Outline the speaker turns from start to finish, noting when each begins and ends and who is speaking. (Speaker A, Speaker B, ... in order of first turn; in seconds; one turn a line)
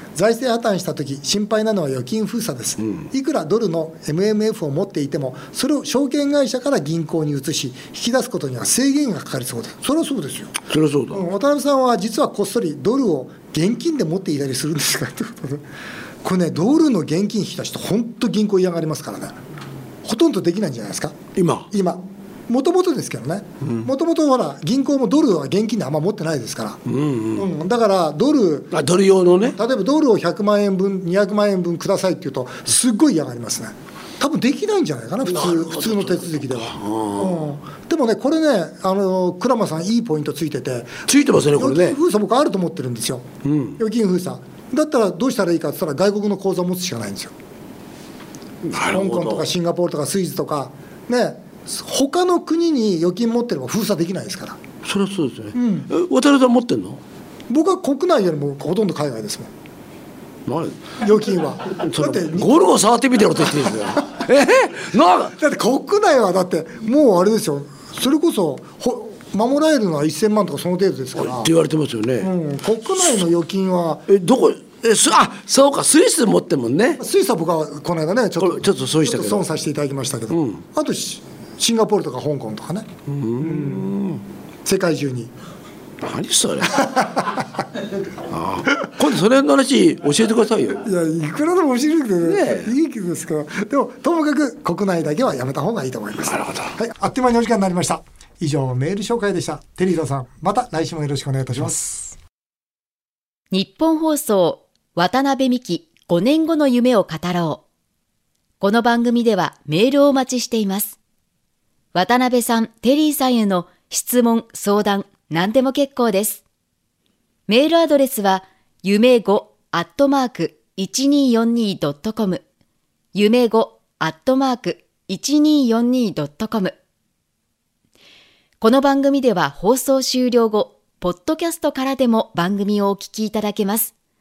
Speaker A: 0.1-10.6
Speaker B: 10.7-11.2
Speaker A: 11.1-15.6
Speaker A: 16.2-19.4
Speaker A: 20.0-21.1
Speaker B: 21.4-21.7
Speaker A: 21.7-26.8
Speaker B: 26.9-27.5
Speaker A: 27.4-28.7
Speaker B: 28.7-29.6
Speaker A: 29.5-43.2
Speaker B: 35.2-37.4
Speaker B: 41.1-42.0
Speaker B: 43.4-43.8
Speaker A: 43.8-47.3
Speaker B: 48.6-49.5
Speaker A: 48.8-54.6
Speaker B: 54.8-57.0
Speaker A: 55.5-55.9
Speaker A: 57.5-59.5
Speaker B: 60.5-60.9
Speaker A: 61.0-62.6
Speaker B: 61.7-65.3
Speaker A: 65.3-71.5
Speaker B: 71.2-72.3
Speaker A: 72.2-74.1
Speaker B: 74.1-77.0
Speaker A: 77.0-84.0
Speaker B: 78.4-79.4
Speaker B: 80.3-80.6
Speaker B: 83.1-84.2
Speaker A: 84.6-85.3
Speaker B: 86.0-86.9
Speaker A: 86.9-87.2
Speaker B: 88.3-90.8
Speaker A: 90.8-102.1
Speaker B: 92.2-92.7
Speaker B: 96.3-96.7
Speaker C: 103.5-107.6
Speaker C: 108.6-111.0
Speaker C: 111.9-116.4
Speaker C: 117.5-122.4
Speaker C: 123.1-126.7
Speaker C: 128.6-133.9